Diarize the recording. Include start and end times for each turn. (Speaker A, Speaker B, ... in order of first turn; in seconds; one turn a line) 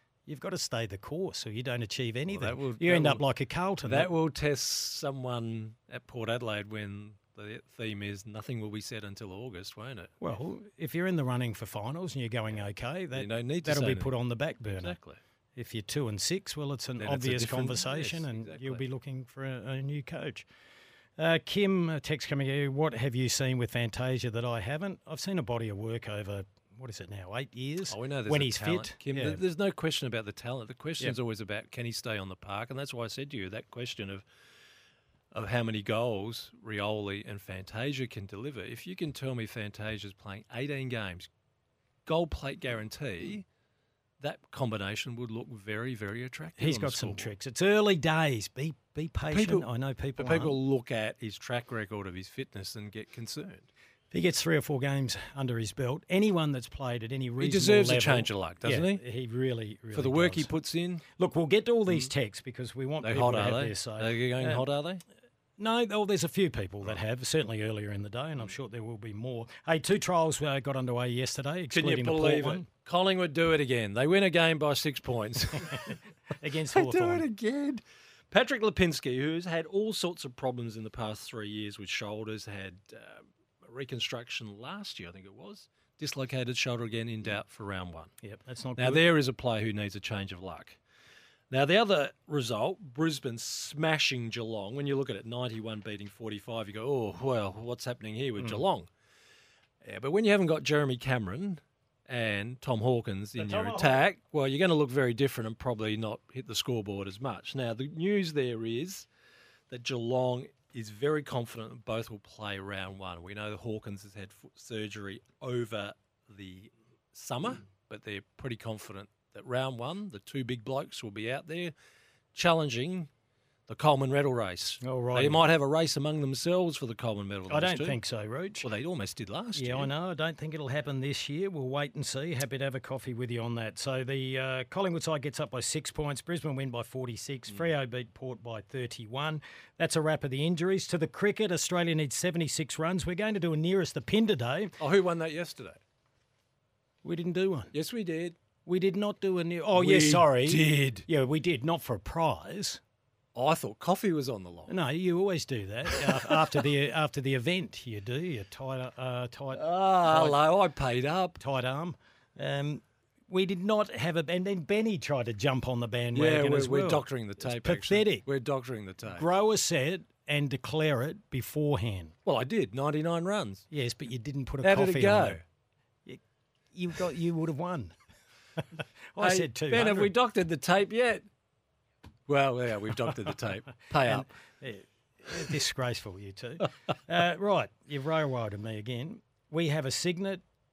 Speaker A: 0.3-4.1
Speaker B: 2.3-3.2
Speaker B: 3.8-10.2
Speaker A: 10.2-15.0
Speaker B: 13.1-14.2
Speaker B: 14.7-15.2
Speaker A: 15.6-20.5
Speaker B: 17.0-18.9
Speaker A: 21.2-29.4
Speaker B: 27.9-34.2
Speaker B: 35.3-41.3
Speaker B: 42.1-43.5
Speaker B: 44.2-47.3
Speaker A: 46.6-50.6
Speaker B: 49.3-53.7
Speaker A: 54.1-60.5
Speaker B: 57.4-59.0
Speaker B: 59.9-61.0
Speaker A: 61.2-64.7
Speaker B: 63.0-65.0
Speaker A: 65.6-72.7
Speaker B: 71.7-76.1
Speaker A: 76.3-77.3
Speaker B: 76.6-88.1
Speaker A: 88.2-89.1
Speaker B: 88.8-90.8
Speaker B: 91.5-98.9
Speaker B: 99.8-109.1
Speaker A: 103.4-104.1
Speaker B: 109.7-121.7
Speaker B: 122.3-123.1
Speaker B: 123.7-128.0
Speaker A: 124.8-125.4
Speaker A: 127.5-128.7
Speaker B: 128.6-129.9
Speaker A: 129.6-144.8
Speaker B: 144.8-145.8
Speaker A: 147.0-147.7
Speaker B: 147.7-148.4
Speaker A: 148.7-152.8
Speaker B: 149.7-151.1
Speaker B: 153.3-154.7
Speaker A: 154.7-160.4
Speaker B: 155.9-156.7
Speaker B: 159.5-161.4
Speaker A: 161.4-168.3
Speaker B: 166.1-169.3
Speaker A: 169.1-172.2
Speaker B: 172.2-173.6
Speaker A: 173.7-175.4
Speaker B: 174.6-175.4
Speaker A: 176.7-178.0
Speaker A: 178.8-180.1
Speaker B: 179.2-181.2
Speaker B: 182.3-184.3
Speaker A: 184.0-190.4